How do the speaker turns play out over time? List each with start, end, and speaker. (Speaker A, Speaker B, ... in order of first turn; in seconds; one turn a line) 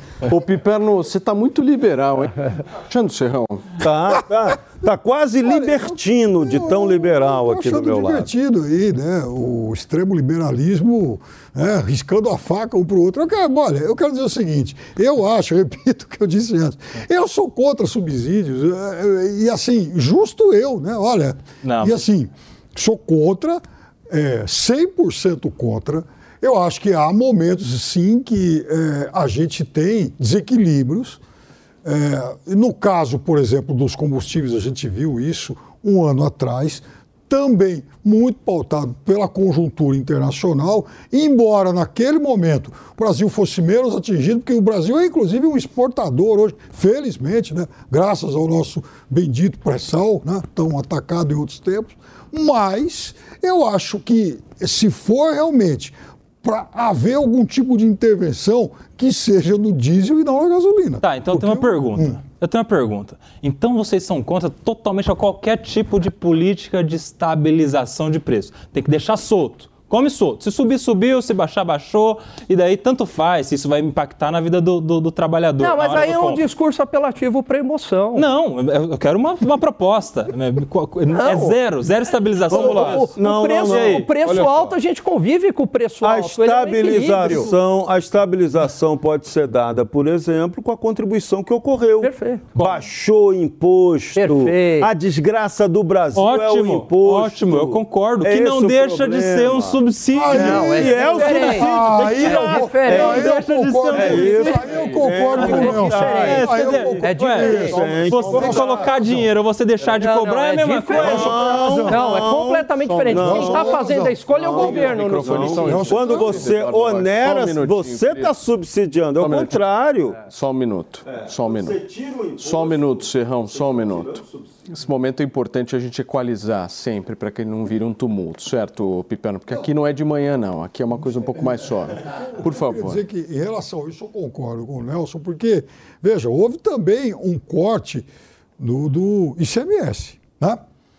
Speaker A: 0.3-3.8
Speaker B: 3.8-8.3
Speaker C: 5.4-31.2
Speaker D: 21.6-22.0
Speaker C: 31.8-62.2
Speaker D: 61.0-76.4
Speaker E: 75.6-78.2
Speaker D: 78.1-83.1
Speaker E: 81.1-81.5
Speaker B: 82.5-84.8
Speaker E: 82.5-87.5
Speaker D: 83.6-84.0
Speaker B: 86.0-103.3
Speaker D: 87.2-87.5
Speaker E: 92.0-92.4
Speaker D: 92.5-92.8
Speaker E: 94.2-94.9
Speaker D: 96.1-101.5
Speaker C: 100.1-107.8
Speaker E: 100.3-103.2
Speaker D: 102.2-104.7
Speaker B: 103.9-109.2
Speaker E: 105.3-107.8
Speaker D: 106.0-107.5
Speaker A: 107.7-108.7
Speaker D: 108.1-111.4
Speaker E: 108.3-108.6
Speaker E: 109.8-111.3
Speaker B: 110.9-120.2
Speaker A: 111.0-112.2
Speaker E: 111.8-115.7
Speaker A: 112.8-113.3
Speaker C: 113.2-114.2
Speaker A: 114.4-118.3
Speaker C: 115.6-116.5
Speaker A: 119.2-119.6
Speaker A: 120.2-121.8
Speaker B: 121.1-124.5
Speaker A: 122.4-133.0
Speaker C: 132.1-138.1
Speaker C: 138.6-140.6